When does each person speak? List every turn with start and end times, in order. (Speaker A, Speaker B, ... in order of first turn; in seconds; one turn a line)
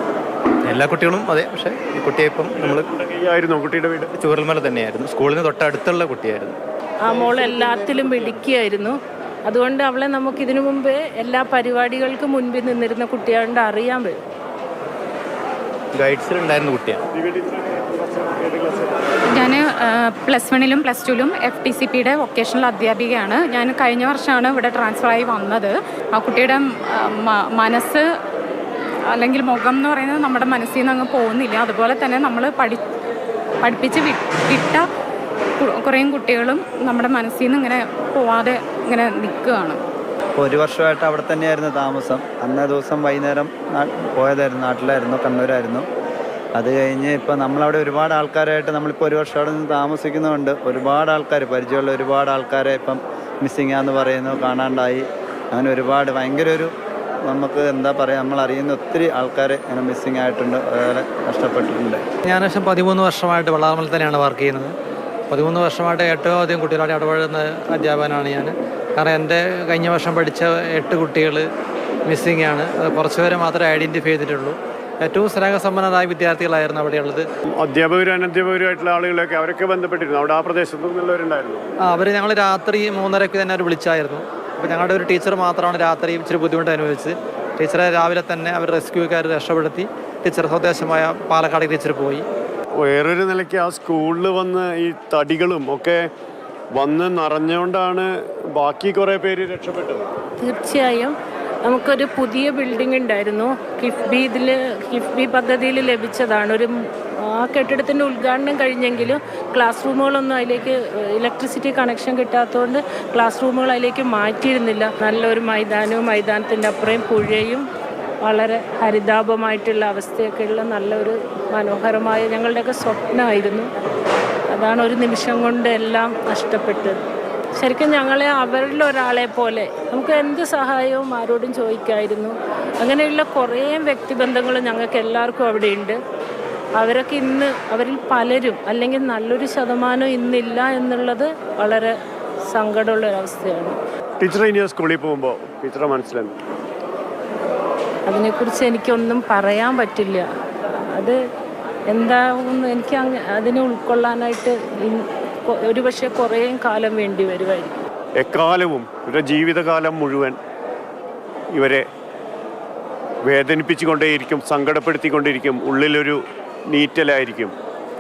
Speaker A: 0.6-2.9
Speaker B: 2.6-4.1
Speaker A: 4.1-6.6
Speaker C: 7.0-14.2
Speaker A: 15.9-17.1
Speaker B: 17.2-19.1
Speaker D: 19.3-28.0
Speaker D: 29.1-32.8
Speaker D: 33.6-34.9
Speaker D: 35.6-39.8
Speaker E: 40.4-45.9
Speaker E: 46.6-56.7
Speaker E: 57.3-62.0
Speaker F: 62.3-64.7
Speaker F: 65.3-71.5
Speaker F: 72.1-77.3
Speaker B: 77.5-81.6
Speaker F: 81.8-92.2
Speaker B: 92.8-96.1
Speaker B: 96.7-100.1
Speaker C: 100.4-117.7
Speaker C: 118.2-123.7
Speaker C: 124.5-127.0
Speaker C: 127.5-136.0
Speaker C: 136.8-141.9
Speaker C: 142.5-143.8
Speaker B: 144.2-146.4
Speaker C: 148.1-150.3
Speaker C: 150.9-151.2
Speaker C: 151.9-157.9
Speaker B: 158.2-160.4
Speaker B: 161.5-161.9
Speaker B: 163.2-167.5